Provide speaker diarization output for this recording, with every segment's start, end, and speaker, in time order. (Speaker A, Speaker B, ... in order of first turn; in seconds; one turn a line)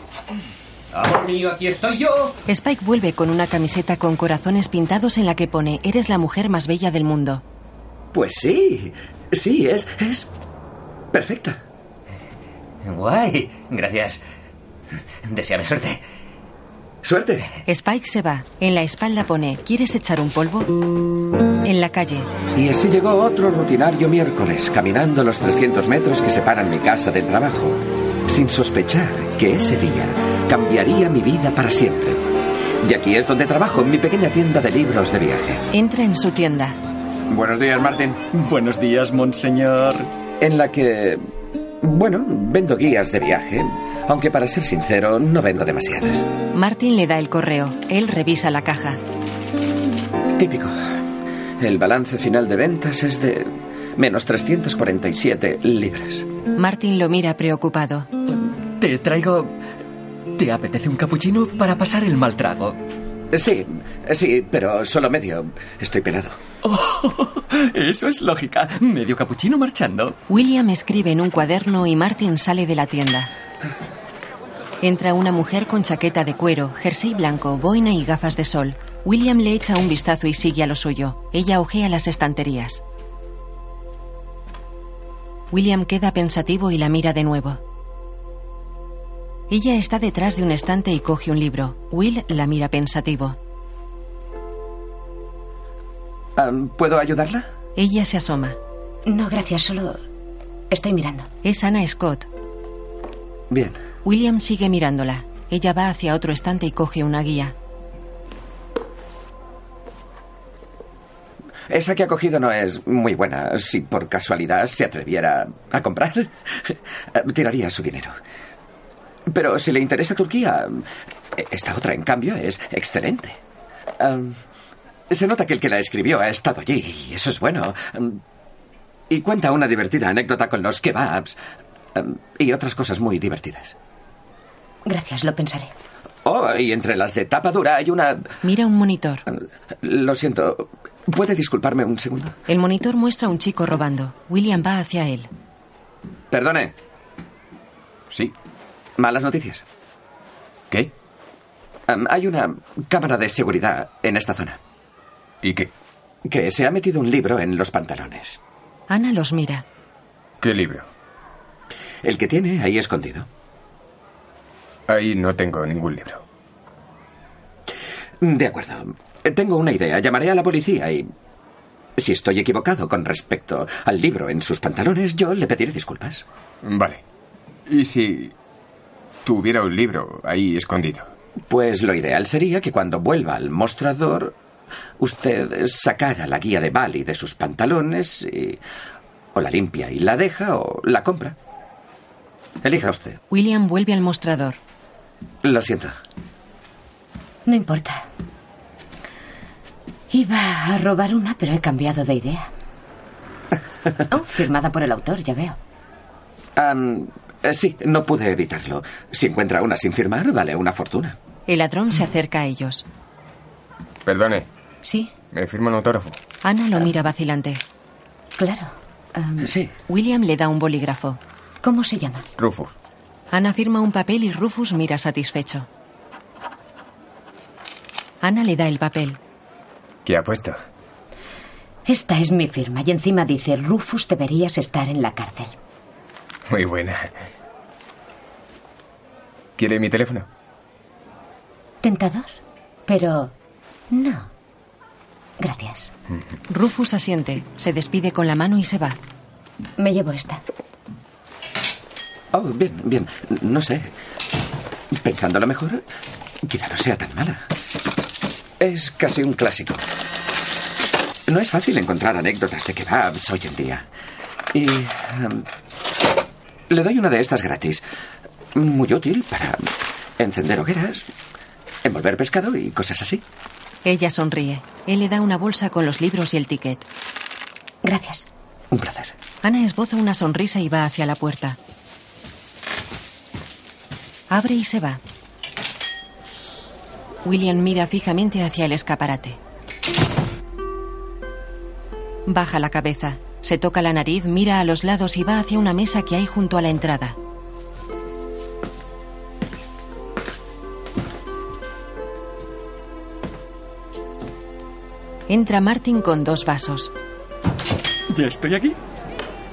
Speaker A: 0.9-2.4
Speaker B: 2.5-7.4
Speaker C: 8.1-10.3
Speaker C: 11.1-11.6
Speaker A: 12.8-14.2
Speaker A: 15.2-16.0
Speaker C: 17.0-17.5
Speaker B: 17.7-20.7
Speaker B: 21.6-22.3
Speaker C: 22.5-32.2
Speaker C: 32.8-35.6
Speaker B: 35.7-36.8
Speaker C: 37.3-38.2
Speaker D: 38.3-40.1
Speaker C: 40.4-41.2
Speaker C: 41.8-46.3
Speaker B: 46.5-49.0
Speaker C: 50.3-51.0
Speaker C: 51.6-56.3
Speaker B: 56.6-58.1
Speaker D: 58.3-59.5
Speaker D: 60.4-62.8
Speaker C: 63.3-66.4
Speaker D: 66.6-70.2
Speaker B: 70.3-73.3
Speaker B: 74.8-82.8
Speaker B: 85.5-87.6
Speaker B: 89.5-93.4
Speaker C: 96.4-97.5
Speaker B: 97.8-98.6
Speaker E: 99.1-100.0
Speaker E: 100.7-101.3
Speaker B: 101.4-102.3
Speaker C: 103.5-103.8
Speaker B: 104.0-107.5
Speaker C: 111.7-118.2
Speaker C: 119.3-123.4
Speaker C: 124.0-124.4
Speaker C: 125.1-128.2
Speaker C: 129.1-131.4
Speaker C: 131.9-133.8
Speaker E: 134.8-135.7
Speaker C: 136.2-138.3
Speaker B: 138.4-139.2
Speaker C: 139.3-142.4
Speaker B: 142.5-145.3
Speaker C: 146.3-146.7
Speaker C: 149.0-149.7
Speaker C: 151.9-154.6
Speaker F: 155.4-155.7
Speaker C: 156.2-158.4
Speaker B: 158.9-159.7
Speaker F: 160.4-160.9
Speaker C: 162.0-163.3
Speaker F: 164.9-166.2
Speaker C: 168.2-171.1
Speaker C: 172.0-176.2
Speaker F: 176.6-177.0
Speaker F: 177.7-178.3
Speaker F: 179.2-181.1
Speaker C: 181.4-184.4
Speaker C: 185.0-188.6
Speaker C: 189.3-191.4
Speaker C: 192.6-193.2
Speaker B: 193.3-194.6
Speaker C: 195.4-196.0
Speaker E: 197.5-198.1
Speaker E: 200.1-202.5
Speaker E: 204.1-205.6
Speaker C: 206.6-211.2
Speaker B: 211.5-212.9
Speaker F: 214.1-214.5
Speaker E: 214.8-215.1
Speaker F: 215.3-216.2
Speaker B: 216.4-217.6
Speaker E: 218.4-219.5
Speaker C: 219.4-219.7
Speaker B: 219.9-221.2
Speaker E: 221.6-222.3
Speaker F: 222.4-222.7
Speaker B: 223.3-225.7
Speaker B: 228.2-229.2
Speaker F: 230.1-230.6
Speaker E: 231.9-235.6
Speaker F: 236.5-237.1
Speaker F: 239.6-240.3
Speaker E: 241.8-242.3
Speaker E: 242.9-243.3
Speaker E: 243.9-244.3
Speaker E: 245.4-245.9
Speaker B: 246.5-249.0
Speaker E: 249.8-250.4
Speaker C: 252.3-253.9
Speaker C: 255.0-255.8
Speaker C: 256.4-257.5
Speaker C: 258.6-259.8
Speaker C: 261.3-263.9
Speaker C: 264.5-265.5
Speaker C: 266.7-267.8
Speaker C: 268.6-271.1
Speaker C: 271.8-273.2
Speaker B: 273.9-276.9
Speaker E: 277.8-278.3
Speaker C: 278.7-279.1
Speaker B: 279.4-281.6
Speaker B: 284.3-285.0
Speaker B: 287.2-289.4
Speaker B: 292.3-297.2
Speaker B: 305.3-306.9
Speaker D: 308.1-308.8